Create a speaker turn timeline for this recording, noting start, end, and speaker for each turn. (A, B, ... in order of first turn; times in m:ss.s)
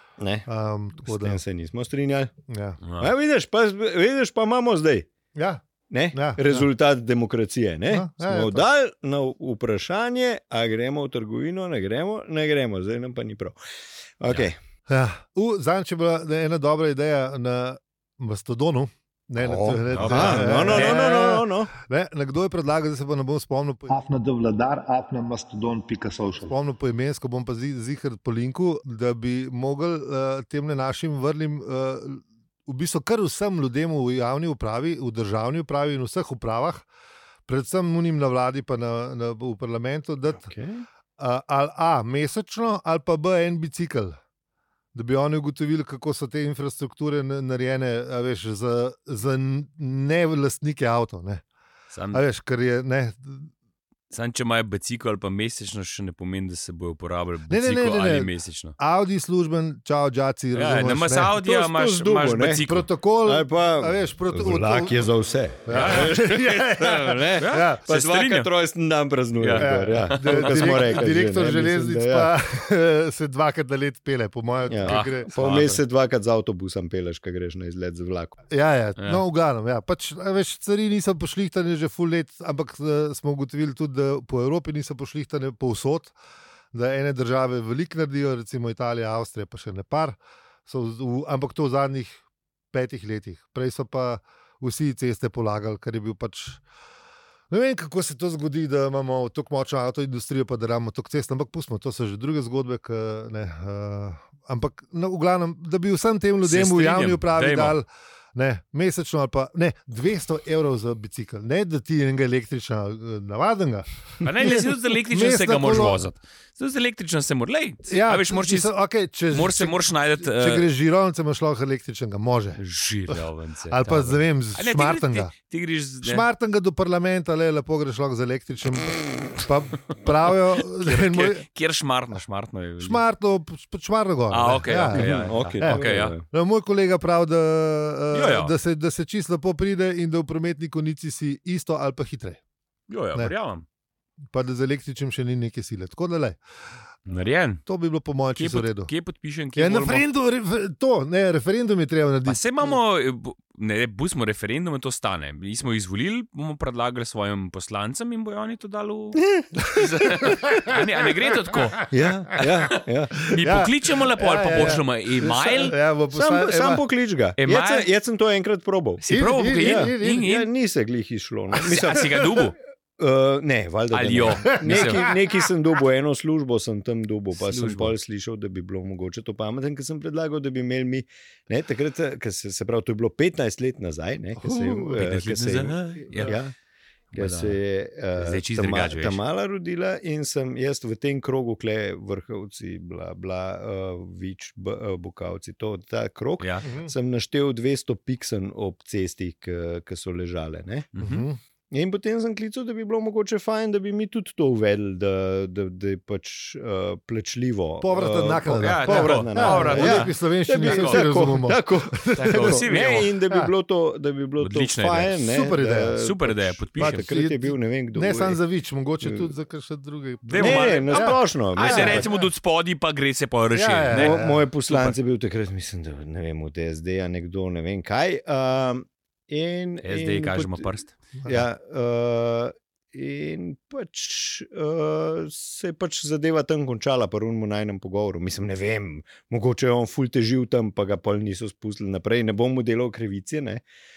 0:00.2-0:00.4 A
0:00.4-0:01.4 B
0:01.0-0:02.3 A
0:02.5-0:02.8 B
0:02.8-0:03.1 C
0:03.0-0:05.1 A
0:05.3-0:06.7 B
0:05.9-0:13.6 A
0:07.9-0:08.6 B
0:14.2-0:14.6 A
0:14.9-0:36.8 B
0:19.4-0:21.7 A
0:19.9-0:21.1 C
0:37.5-0:40.5 B
0:40.4-0:40.8 A
0:41.2-0:44.2 B
0:44.9-0:51.4 B
0:51.9-0:52.2 C
0:52.1-0:53.5 B
0:54.1-0:58.8 C
0:57.5-1:01.3 B
1:00.5-1:02.9 C
1:01.3-1:02.6 A
1:02.6-1:05.1 B
1:03.2-1:12.3 A
1:05.6-1:07.8 B
1:05.7-1:06.2 C
1:07.2-1:08.5 C
1:09.4-1:11.0 C
1:09.6-1:15.3 B
1:14.7-1:18.4 A
1:14.8-1:15.8 C
1:18.5-1:26.1 B
1:26.7-1:32.2 B
1:32.7-1:36.6 B
1:37.5-1:56.0 B
1:46.4-1:47.8 C
1:54.2-1:58.7 C
1:57.9-2:05.3 B
1:59.3-2:00.6 C
2:02.6-2:06.2 C
2:06.0-2:11.4 B
2:10.6-2:13.0 C
2:12.8-2:22.4 B
2:14.3-2:16.1 C
2:14.9-2:16.2 A
2:18.1-2:18.5 C
2:22.9-2:23.6 C
2:24.3-2:26.4 B
2:27.1-2:27.6 C
2:27.6-2:28.9 B
2:28.4-2:30.0 C
2:29.5-2:32.7 B
2:32.2-2:41.8 C
2:39.2-2:39.5 A
2:39.6-2:41.9 B
2:41.9-2:43.2 A
2:42.4-2:45.7 C
2:43.3-2:46.8 B
2:45.5-2:49.0 A
2:47.4-2:47.9 C
2:49.0-2:50.5 C
2:49.1-2:50.3 B
2:49.6-2:52.4 A
2:51.6-2:52.6 C
2:53.0-3:06.5 A
2:53.9-2:55.1 C
2:54.4-2:55.2 B
2:57.3-2:57.9 C
3:04.4-3:05.0 B
3:04.9-3:06.4 C
3:07.1-3:07.6 C
3:07.1-3:20.9 A
3:08.1-3:09.2 C
3:16.4-3:16.6 C
3:16.6-3:16.9 B
3:20.9-3:21.2 C
3:21.0-3:21.4 B
3:21.7-3:38.4 A
3:27.8-3:32.7 B
3:28.6-3:31.0 C
3:32.2-3:33.1 C
3:33.2-3:33.5 B
3:34.4-3:35.2 C
3:35.2-3:36.0 B
3:36.0-3:37.1 C
3:36.8-3:42.3 B
3:39.0-3:39.3 A
3:40.2-3:45.0 C
3:40.4-3:42.1 A
3:43.5-3:44.4 B
3:43.9-3:50.7 A
3:49.8-3:50.9 C
3:51.2-3:51.4 B
3:51.2-4:03.6 A